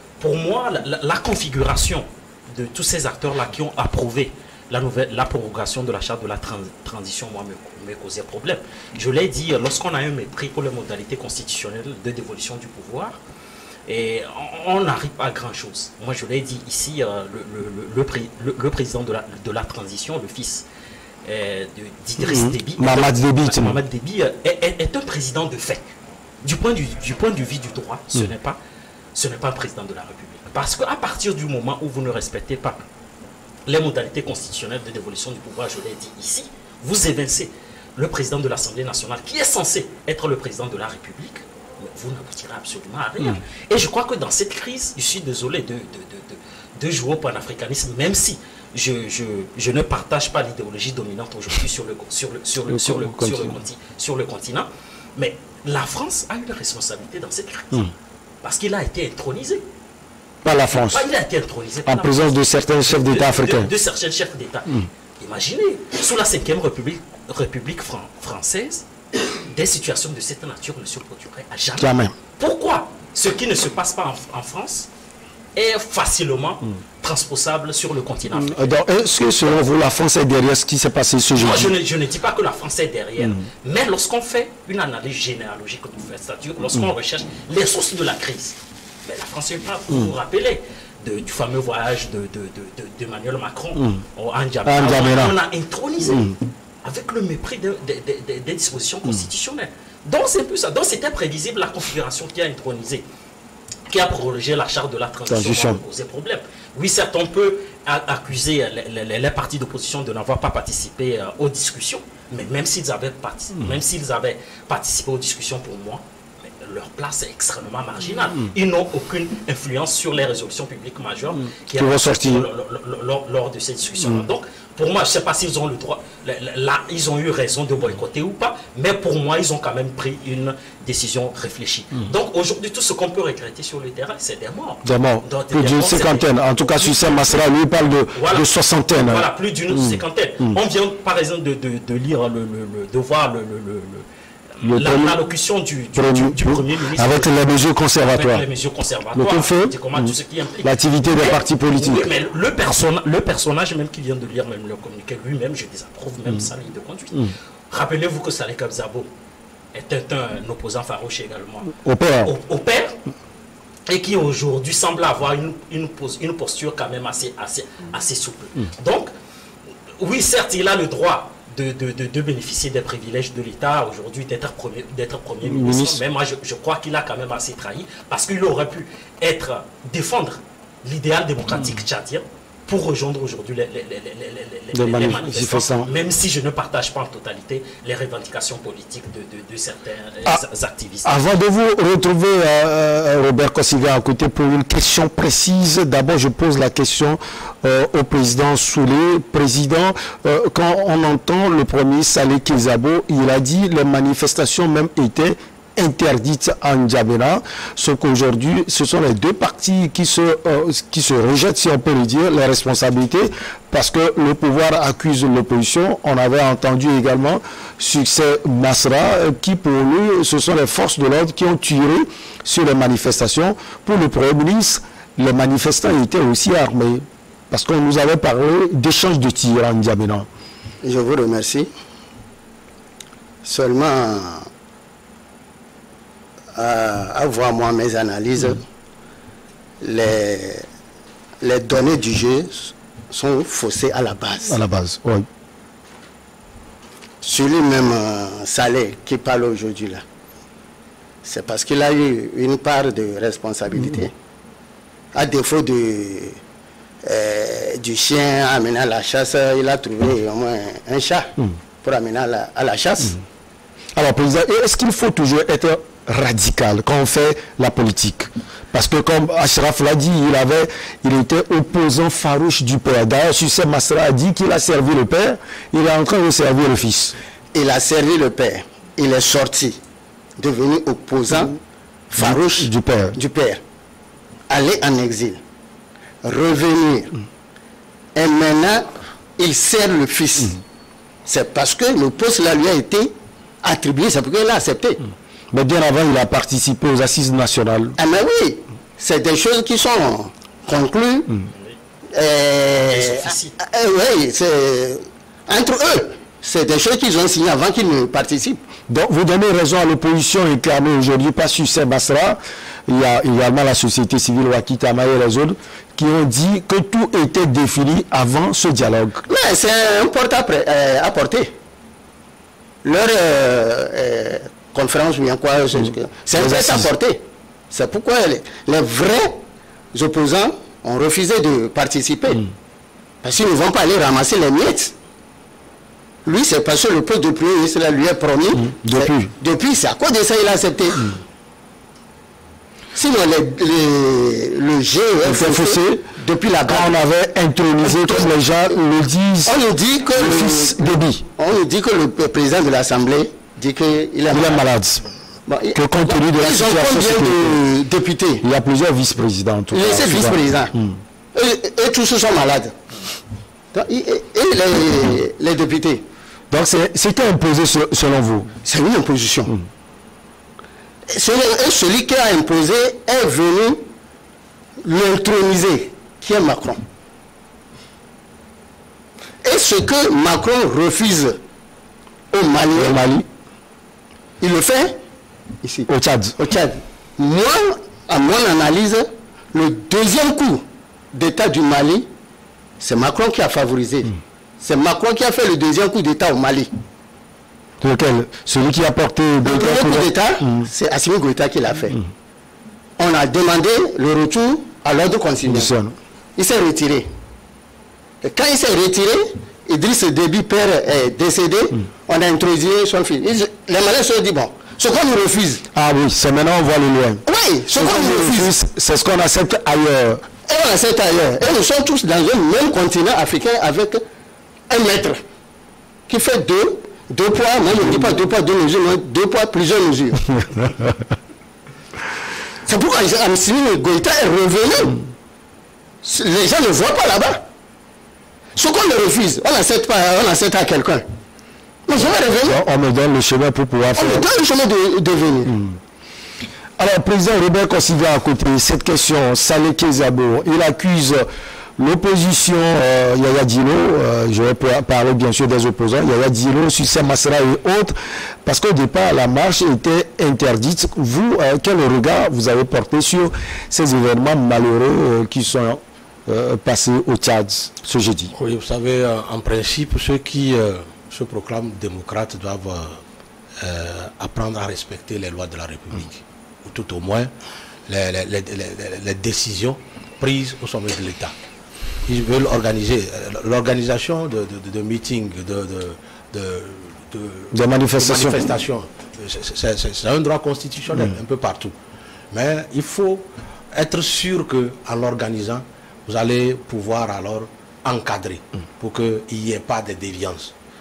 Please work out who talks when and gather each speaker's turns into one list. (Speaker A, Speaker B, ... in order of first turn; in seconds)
Speaker A: 0.2-13.2, 13.9-20.6, 21.2-28.6, 29.1-32.8, 33.7-57.9, 58.4-59.6, 60.9-68.9, 69.5-74.9, 75.5-78.8, 81.4-103.0, 103.9-137.4, 138.1-144.1, 144.6-147.3, 148.0-159.1, 159.7-163.0, 163.9-169.1, 170.0-191.2, 302.8-303.6
Speaker B: 22.2-23.8, 52.7-53.6, 60.4-61.1, 61.9-63.7, 71.8-72.1, 78.3-81.7, 94.7-95.4, 105.3-105.8, 121.8-122.5, 134.8-140.6, 144.6-145.2, 146.0-148.4, 149.2-150.1, 150.6-152.1, 161.8-162.3, 175.4-176.0, 184.7-185.9, 191.1-230.3, 244.5-245.3, 264.0-277.2, 282.2-283.2, 295.5-298.0, 308.9-319.2, 326.3-326.9, 338.6-339.3, 345.2-346.1, 346.7-349.6, 350.1-351.2, 354.3-355.1, 355.7-357.6, 358.4-361.0, 366.5-368.6, 382.7-383.3, 385.9-386.4, 397.8-400.7, 405.5-406.0, 415.7-420.2, 442.0-444.3, 445.5-445.8, 446.8-468.3, 487.5-488.5
Speaker C: 230.8-231.7, 233.4-234.5, 236.6-238.6, 239.8-240.7, 241.4-244.6, 247.2-250.0, 251.2-254.1, 255.1-256.4, 257.0-263.2, 277.5-279.8, 280.4-283.6, 284.5-285.4, 286.2-287.1, 288.1-290.6, 291.3-295.1, 298.0-301.3, 302.1-308.6, 319.3-321.5, 322.8-329.4, 329.9-332.5, 333.2-334.9, 336.2-341.1, 342.9-346.9, 347.8-348.3, 349.4-354.6, 355.5-358.4, 359.7-360.7, 361.3-362.8, 363.7-366.1, 368.6-369.5, 371.1-373.9, 374.8-376.8, 379.4-381.4, 382.3-383.1, 384.4-385.0, 385.6-392.1, 392.8-396.7, 399.4-402.0, 403.0-405.7, 406.4-407.1, 408.2-415.6, 417.3-418.5, 420.4-424.0, 424.7-425.2, 426.1-430.4, 432.6-435.0, 436.0-437.4, 438.6-441.1, 441.9-442.6, 444.0-445.6
Speaker D: 468.3-473.0, 473.6-477.3, 477.9-481.3, 482.1-491.7, 492.3-500.5